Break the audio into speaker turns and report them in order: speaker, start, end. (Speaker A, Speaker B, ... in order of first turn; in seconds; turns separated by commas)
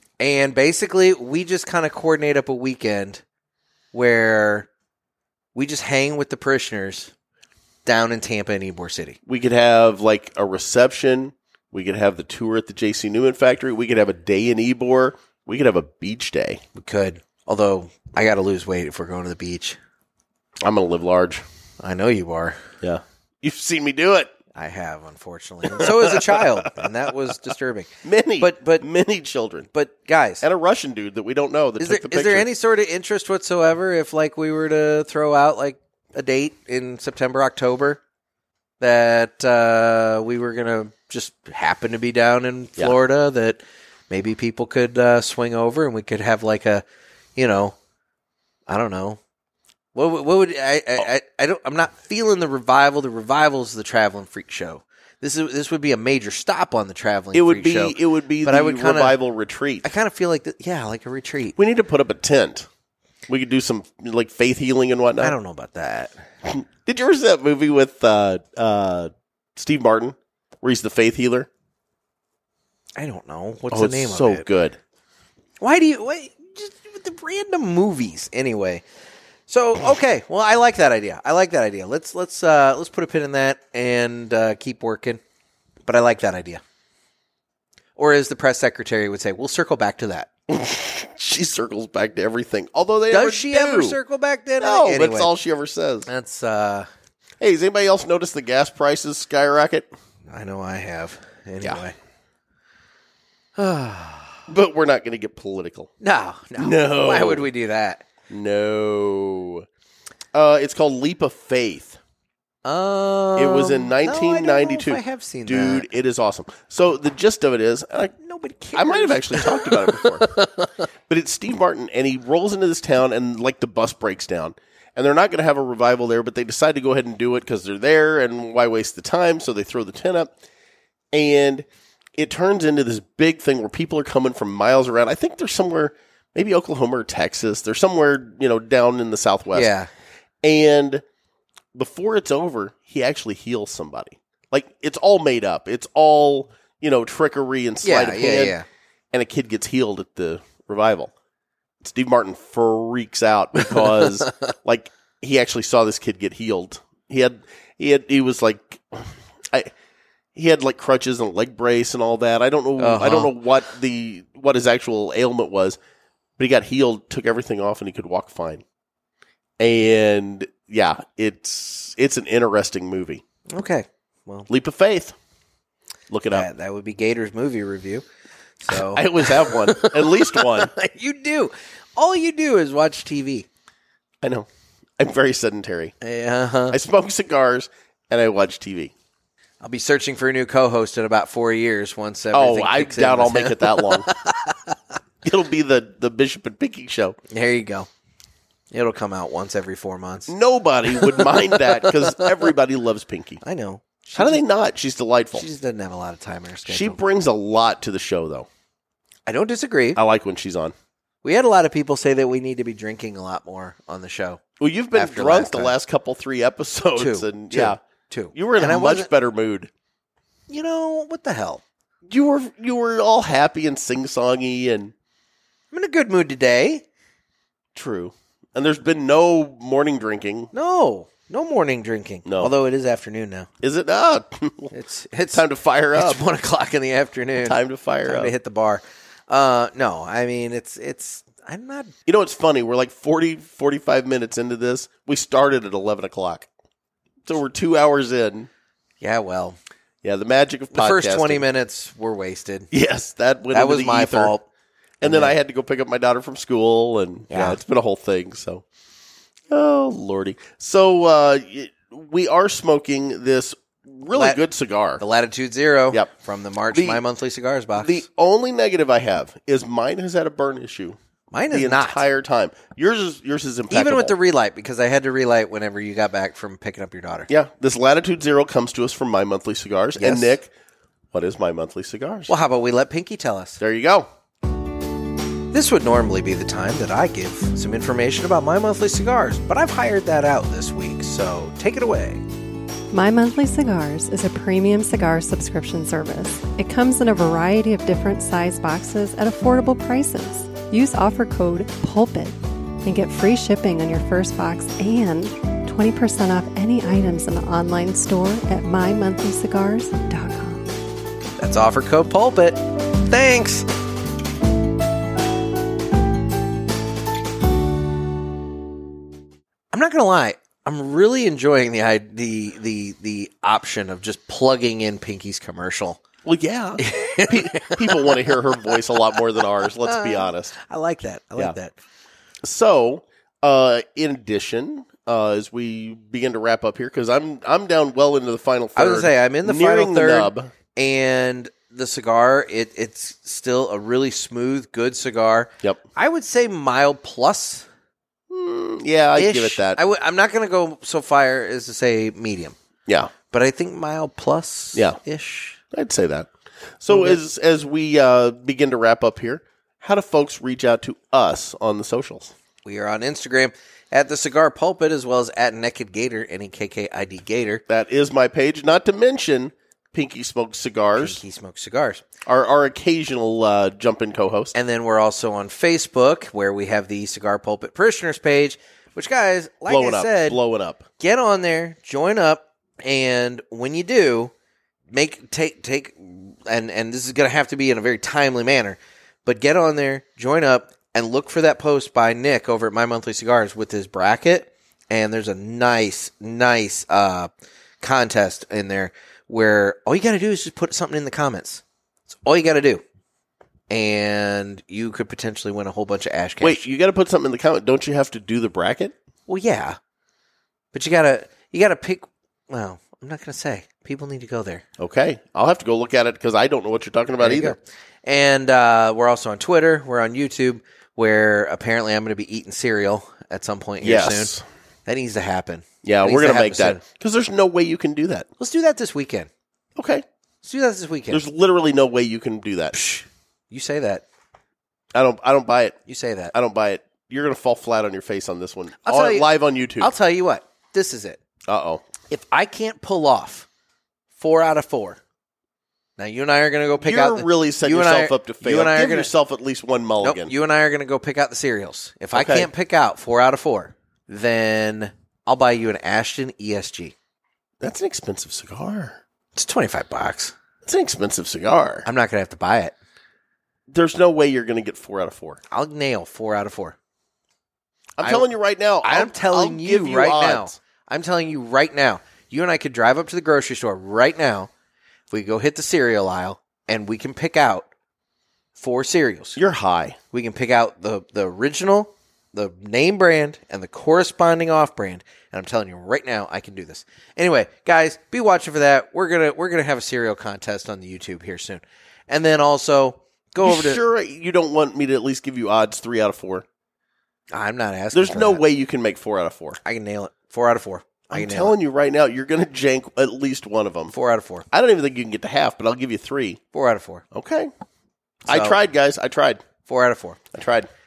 Speaker A: 0.2-3.2, Speaker A: 3.9-4.7, Speaker A: 5.5-7.1, Speaker A: 7.8-9.2, Speaker B: 9.2-16.6, Speaker A: 16.7-19.8, Speaker B: 20.6-21.4, Speaker A: 21.8-22.6, Speaker B: 22.8-24.3, Speaker A: 24.5-28.9, Speaker B: 25.7-26.6, Speaker B: 28.0-29.7, Speaker A: 29.7-30.4, Speaker B: 30.4-32.5, Speaker A: 31.8-38.0, Speaker A: 38.8-46.8, Speaker A: 47.4-47.7, Speaker A: 48.7-49.2, Speaker A: 49.9-59.2, Speaker B: 57.3-59.9, Speaker A: 59.8-61.6, Speaker B: 61.6-62.7, Speaker B: 63.3-65.3, Speaker A: 65.2-66.1, Speaker B: 66.4-71.5, Speaker A: 73.0-74.4, Speaker B: 73.7-74.8, Speaker A: 75.6-78.8, Speaker A: 79.5-85.2, Speaker A: 85.8-86.6, Speaker A: 88.0-90.3, Speaker B: 90.5-94.0, Speaker A: 93.1-95.3, Speaker B: 94.6-96.1, Speaker A: 96.0-96.9, Speaker B: 97.4-99.9, Speaker A: 100.3-101.9, Speaker A: 103.6-104.4, Speaker B: 104.5-105.9, Speaker A: 106.0-108.0, Speaker B: 106.6-107.5, Speaker B: 108.3-109.7, Speaker B: 110.3-112.0, Speaker A: 112.6-115.9, Speaker B: 113.3-118.1, Speaker A: 118.2-120.7, Speaker B: 118.7-120.3, Speaker B: 121.1-130.3, Speaker B: 131.1-131.7, Speaker B: 132.2-139.7, Speaker A: 139.5-139.9, Speaker B: 140.4-141.0, Speaker B: 141.7-148.6, Speaker A: 147.8-148.6, Speaker B: 149.1-151.1, Speaker B: 151.8-159.7, Speaker A: 153.7-154.3, Speaker B: 160.3-165.8, Speaker A: 162.8-163.3, Speaker B: 166.4-168.6, Speaker B: 169.6-173.2, Speaker A: 173.5-174.5, Speaker B: 174.5-175.2, Speaker B: 176.1-176.5, Speaker A: 176.3-178.0, Speaker A: 178.6-183.5, Speaker B: 178.7-180.7, Speaker B: 184.2-185.9, Speaker A: 186.0-186.8, Speaker B: 186.7-188.9, Speaker A: 189.6-194.8, Speaker B: 192.3-194.1, Speaker B: 195.2-197.2, Speaker A: 197.3-197.9, Speaker A: 198.7-200.3, Speaker B: 200.3-203.4, Speaker A: 200.9-202.3, Speaker A: 203.4-204.4, Speaker B: 204.2-205.4, Speaker A: 205.3-207.0, Speaker B: 206.7-208.5, Speaker A: 209.2-210.0, Speaker B: 209.9-210.7, Speaker A: 211.2-214.4, Speaker B: 214.6-217.8, Speaker A: 214.9-215.7, Speaker A: 217.0-219.1, Speaker B: 218.3-219.7, Speaker A: 220.5-221.6, Speaker B: 222.1-224.9, Speaker A: 225.7-226.8, Speaker B: 227.7-230.5, Speaker A: 230.5-233.5, Speaker B: 232.2-232.5, Speaker B: 233.6-234.7, Speaker A: 234.7-235.4, Speaker B: 235.3-236.2, Speaker A: 235.9-241.9, Speaker B: 237.4-238.3, Speaker B: 242.1-246.5, Speaker B: 247.2-248.5, Speaker A: 249.0-249.6, Speaker B: 250.0-251.4, Speaker A: 250.7-252.7, Speaker B: 252.7-254.3, Speaker A: 253.5-254.4, Speaker B: 255.0-258.6, Speaker A: 255.0-255.3, Speaker A: 257.3-257.6, Speaker B: 259.5-265.0, Speaker A: 264.1-264.4, Speaker A: 265.0-268.0, Speaker B: 266.7-267.0, Speaker B: 267.8-271.0, Speaker A: 271.3-272.0, Speaker B: 271.5-274.1, Speaker A: 273.7-277.3, Speaker B: 277.3-280.5, Speaker A: 280.0-280.4, Speaker B: 281.1-282.3, Speaker A: 282.3-283.6, Speaker B: 283.6-284.1, Speaker A: 285.5-292.2, Speaker C: 292.9-310.7, Speaker A: 311.4-313.7, Speaker A: 319.7-326.0, Speaker B: 326.2-330.6, Speaker A: 326.8-331.7, Speaker B: 332.4-340.5, Speaker A: 338.8-347.6, Speaker B: 348.3-349.8, Speaker A: 349.1-352.6, Speaker B: 352.9-353.1, Speaker A: 353.3-355.6, Speaker B: 355.7-356.3, Speaker B: 356.8-362.3, Speaker A: 356.9-357.2, Speaker A: 362.6-367.6, Speaker B: 367.7-371.2, Speaker A: 371.0-372.0, Speaker B: 372.2-374.5, Speaker A: 374.5-380.4, Speaker B: 379.7-380.9, Speaker A: 381.0-384.3, Speaker A: 384.9-397.3, Speaker A: 397.8-402.8, Speaker A: 403.7-406.6, Speaker B: 406.4-408.9, Speaker A: 409.3-409.8, Speaker A: 410.7-414.6, Speaker B: 414.8-417.6, Speaker A: 417.2-426.8, Speaker B: 423.8-424.4, Speaker B: 425.8-428.3, Speaker A: 428.4-429.3, Speaker B: 429.8-430.0, Speaker A: 430.4-431.2, Speaker B: 431.1-432.8, Speaker A: 432.7-434.0, Speaker B: 434.9-435.8, Speaker A: 435.9-436.3, Speaker B: 436.3-439.9, Speaker A: 438.8-441.2, Speaker B: 441.4-441.8, Speaker A: 442.1-443.4, Speaker A: 444.1-445.0, Speaker A: 446.0-449.1, Speaker B: 446.8-450.3, Speaker A: 450.0-456.9, Speaker B: 452.1-452.5, Speaker B: 457.6-459.0, Speaker A: 459.3-460.3, Speaker B: 460.6-461.9, Speaker A: 461.8-462.7, Speaker B: 463.7-465.4, Speaker A: 465.5-466.8, Speaker B: 468.0-470.6, Speaker A: 468.8-474.5, Speaker A: 475.1-477.7, Speaker A: 478.6-479.4, Speaker B: 479.4-480.0, Speaker A: 480.1-493.8, Speaker B: 493.4-496.4, Speaker A: 497.3-498.4, Speaker B: 497.9-499.6, Speaker A: 499.6-501.5, Speaker B: 501.1-503.9, Speaker A: 503.9-504.4, Speaker B: 504.5-506.4, Speaker A: 506.5-507.0, Speaker B: 507.1-507.5, Speaker A: 508.2-508.6, Speaker B: 508.2-509.4, Speaker A: 509.6-510.2, Speaker B: 510.3-510.7